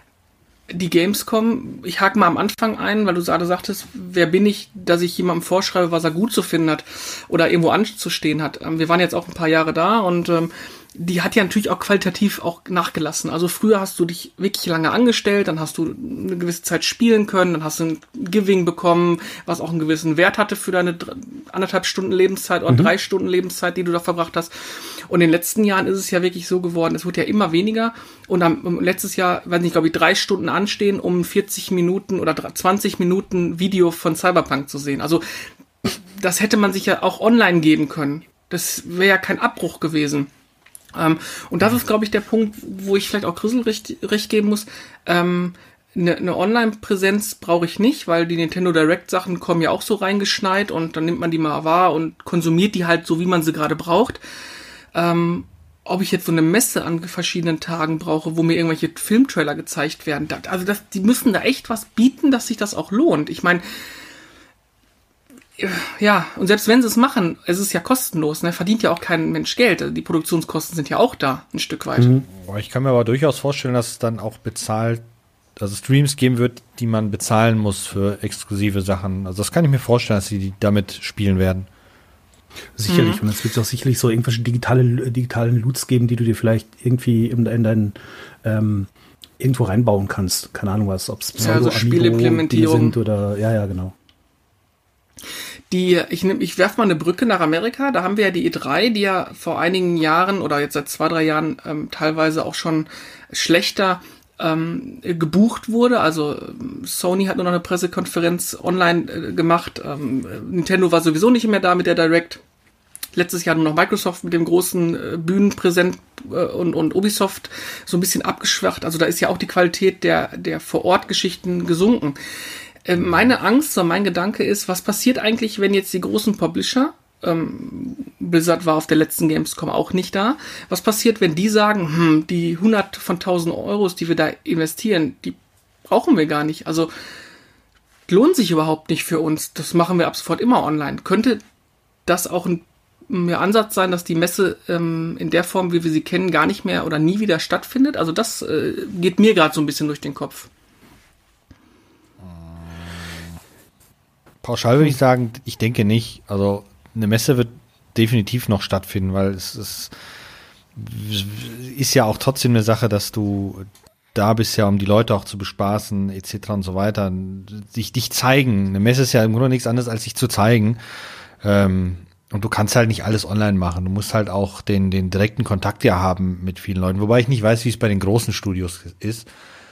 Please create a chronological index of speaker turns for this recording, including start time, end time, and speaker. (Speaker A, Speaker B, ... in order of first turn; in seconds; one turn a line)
Speaker A: 0.7-35.2
Speaker B: 22.7-22.9
Speaker A: 35.8-40.3
Speaker A: 40.9-54.2
Speaker A: 54.9-63.6
Speaker A: 65.6-72.2
Speaker B: 72.0-72.2
Speaker C: 72.3-75.0
Speaker C: 75.6-81.7
Speaker B: 82.8-93.9
Speaker A: 82.9-83.2
Speaker A: 91.4-93.0
Speaker A: 95.7-112.4
Speaker A: 113.1-122.2
Speaker A: 122.8-136.9
Speaker A: 138.1-141.4
Speaker A: 142.1-150.5
Speaker C: 152.2-153.4
Speaker C: 154.4-159.9
Speaker C: 160.8-179.3